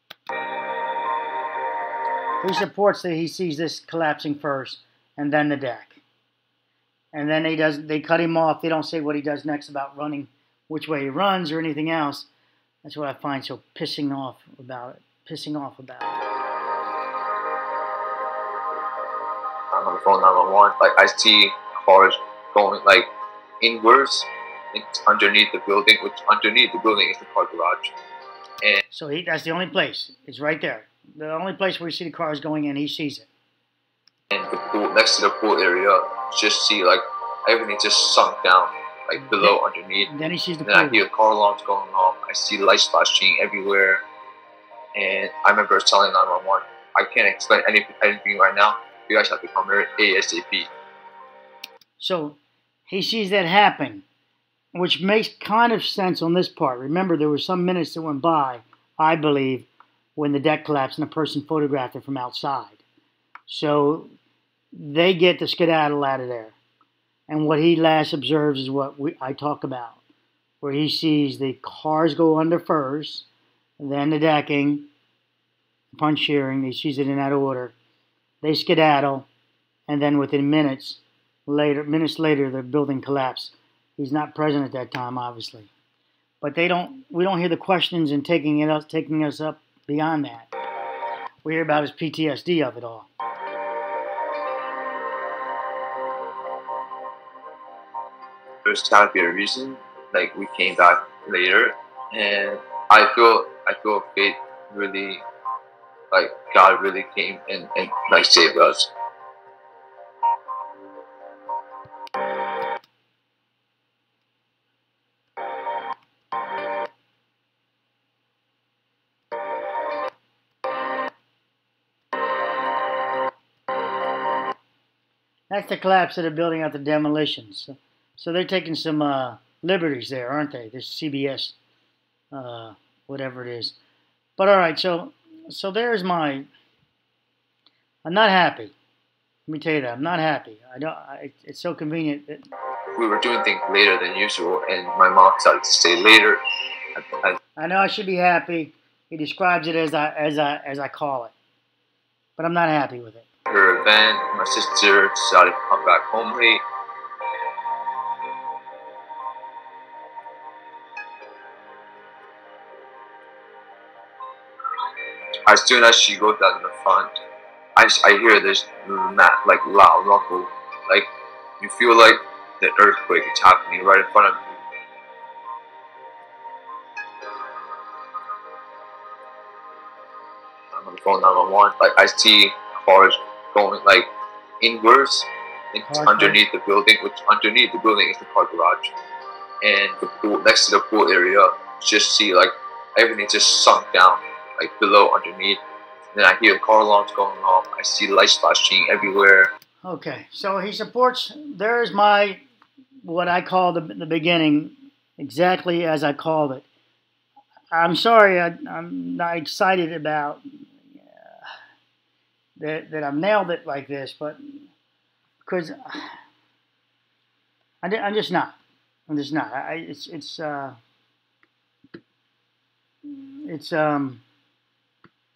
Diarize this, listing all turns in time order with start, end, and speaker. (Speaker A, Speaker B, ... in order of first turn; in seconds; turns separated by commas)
Speaker A: 2.4-6.0, Speaker A: 7.1-12.3, Speaker A: 12.8-16.2, Speaker B: 19.7-27.9, Speaker A: 28.9-33.3, Speaker B: 34.3-44.0, Speaker A: 39.2-41.0, Speaker B: 45.0-50.7, Speaker A: 52.0-54.0, Speaker A: 54.7-62.8, Speaker A: 63.5-64.1, Speaker A: 64.7-66.6, Speaker A: 67.3-70.0, Speaker A: 70.6-73.3, Speaker A: 73.8-74.9, Speaker A: 75.9-77.8, Speaker A: 78.4-79.3, Speaker A: 79.9-85.7, Speaker A: 86.4-90.5, Speaker A: 91.4-93.1, Speaker B: 98.7-105.2, Speaker B: 106.1-108.9, Speaker A: 125.5-131.6, Speaker A: 132.3-133.8, Speaker A: 134.4-136.5, Speaker A: 138.1-138.7, Speaker A: 139.5-142.4, Speaker B: 143.0-146.4, Speaker B: 147.0-147.4, Speaker A: 147.6-151.3, Speaker A: 152.4-153.3, Speaker B: 153.5-156.6, Speaker B: 165.5-167.2, Speaker B: 167.8-174.6, Speaker B: 180.7-184.1, Speaker B: 184.6-188.9, Speaker A: 185.9-186.4, Speaker B: 189.6-195.6, Speaker B: 196.1-199.5, Speaker A: 199.8-202.4, Speaker A: 203.0-206.7, Speaker A: 207.7-210.4, Speaker A: 212.6-214.4, Speaker A: 215.4-216.2, Speaker A: 217.8-218.6, Speaker A: 219.1-220.8, Speaker A: 223.1-224.2